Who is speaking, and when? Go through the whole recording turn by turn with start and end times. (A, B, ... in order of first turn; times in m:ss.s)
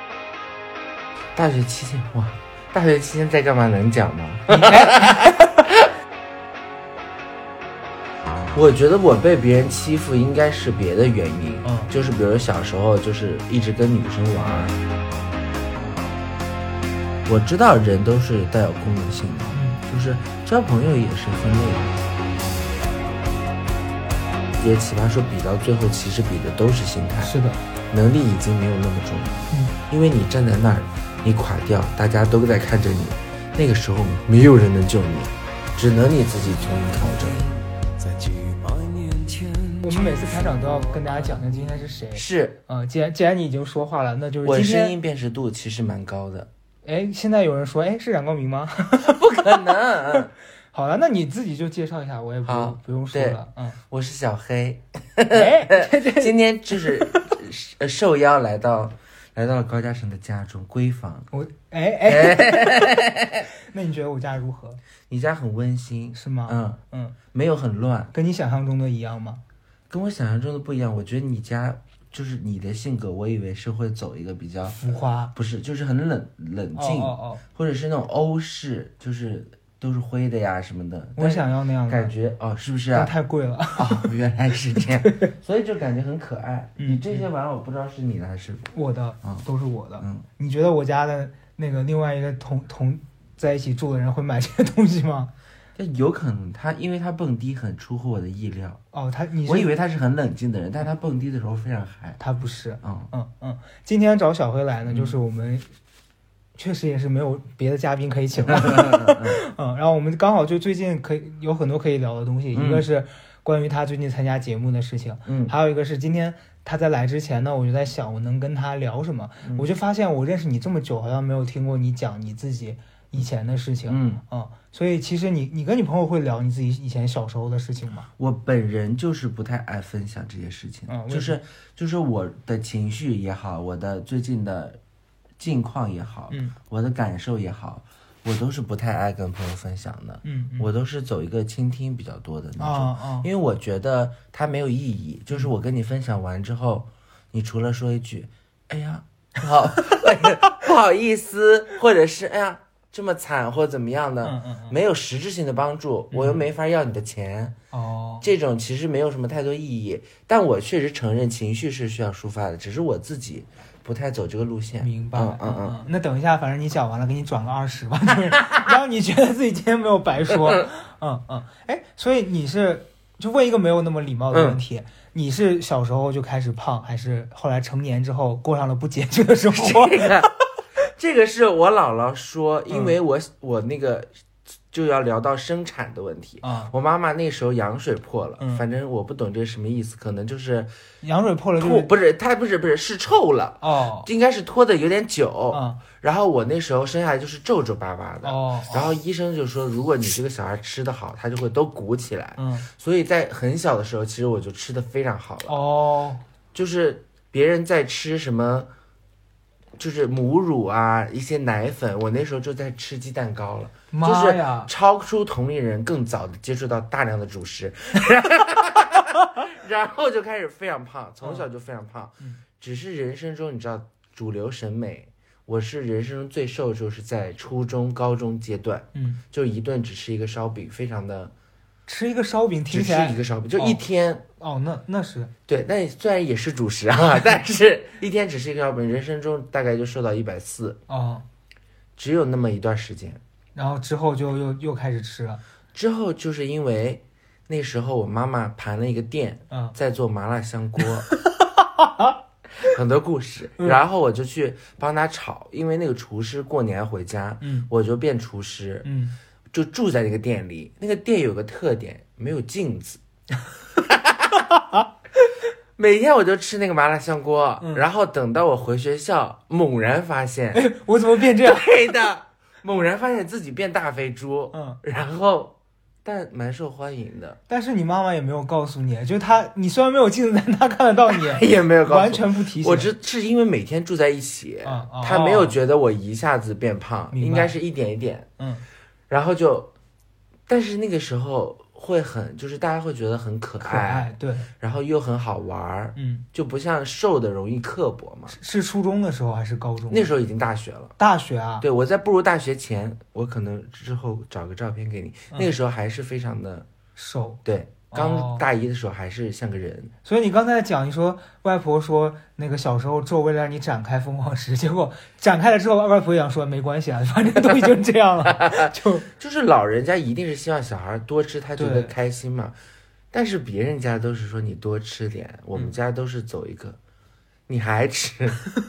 0:01.4-0:05.8 A
0:04.5-0:05.3 B
0:08.5-0:14.8 A
0:11.6-0:11.9 B
0:17.3-0:22.0 A
0:19.5-0:19.8 B
0:24.6-0:27.4 A
0:27.2-0:27.6 B
0:27.9-0:37.5 A
0:37.1-0:42.0 C
0:39.8-0:45.0 B
0:42.1-0:42.6 A
0:44.4-0:46.5 A
0:46.8-0:49.7 B
0:49.0-0:50.3 A
0:50.7-0:53.8 B
0:52.4-1:01.3 A
0:55.3-0:57.0 B
1:01.3-1:04.8 B
1:02.1-1:03.5 A
1:05.1-1:06.8 A
1:06.1-1:07.2 B
1:07.3-1:08.1 A
1:08.1-1:09.4 B
1:09.9-1:14.8 A
1:14.7-1:15.3 B
1:15.3-1:23.1 A
1:16.8-1:17.4 B
1:21.2-1:22.1 B
1:22.9-1:24.1 B
1:23.8-1:28.7 A
1:24.8-1:25.3 B
1:26.8-1:27.2 B
1:28.7-1:35.3 B
1:30.0-1:30.3 A
1:35.8-1:38.8 A
1:38.9-1:39.7 B
1:39.5-1:42.2 A
1:42.2-1:45.7 B
1:42.8-1:43.1 A
1:44.8-1:45.2 A
1:46.6-2:08.1 B
1:48.4-1:49.4 A
1:52.5-1:52.9 A
1:55.2-1:55.6 A
1:59.4-1:59.7 A
2:03.9-2:04.2 A
2:08.2-2:14.8 A
2:10.9-2:11.4 B
2:15.4-2:37.6 A
2:16.3-2:16.6 B
2:20.2-2:20.7 B
2:22.6-2:23.3 B
2:34.2-2:34.8 B
2:36.1-2:36.4 B
2:37.7-2:38.3 B
2:38.2-2:45.8 A
2:44.8-3:00.4 B
2:54.3-2:54.6 A
2:59.5-3:00.3 A
3:00.9-3:04.1 A
3:02.7-3:03.0 B
3:04.7-3:10.7 A
3:06.4-3:06.7 B
3:08.4-3:08.6 B
3:11.0-3:11.9 B
3:11.6-3:25.6 A
3:13.6-3:14.1 B
3:15.5-3:15.8 B
3:18.2-3:19.0 B
3:22.4-3:22.7 B
3:25.5-3:26.2 B
3:26.5-3:28.7 A
3:29.8-3:51.3 A
3:33.9-3:34.7 B
3:49.0-3:49.2 B
3:51.9-3:53.8 B
3:52.7-3:54.2 A
3:54.4-3:55.3 B
3:55.5-4:00.8 A
4:00.9-4:01.3 B
4:02.0-4:03.2 A
4:03.6-4:05.4 B
4:05.7-4:11.1 A
4:09.5-4:09.8 B
4:11.1-4:12.2 B
4:12.6-4:18.9 A
4:17.4-4:17.7 B
4:18.8-4:19.2 B
4:19.5-4:23.0 A
4:23.8-4:24.5 A
4:25.8-4:30.7 A
4:30.5-4:31.7 B
4:31.4-4:37.4 A
4:34.5-4:34.8 B
4:37.5-4:42.9 B
4:41.1-4:48.3 A
4:44.6-4:45.6 B
4:47.1-4:47.6 B
4:48.4-4:48.6 B
4:49.1-4:49.7 A
4:50.5-4:58.4 A
4:53.6-4:54.5 B
4:56.0-4:56.3 B
4:58.3-5:00.1 B
4:59.9-5:01.0 A
5:01.0-5:01.6 B
5:01.6-5:06.7 A
5:07.0-5:08.4 B
5:07.4-5:09.9 A
5:10.0-5:19.1 B
5:18.2-5:22.6 A
5:21.6-5:22.0 B
5:23.1-5:26.8 A
5:27.5-5:28.5 A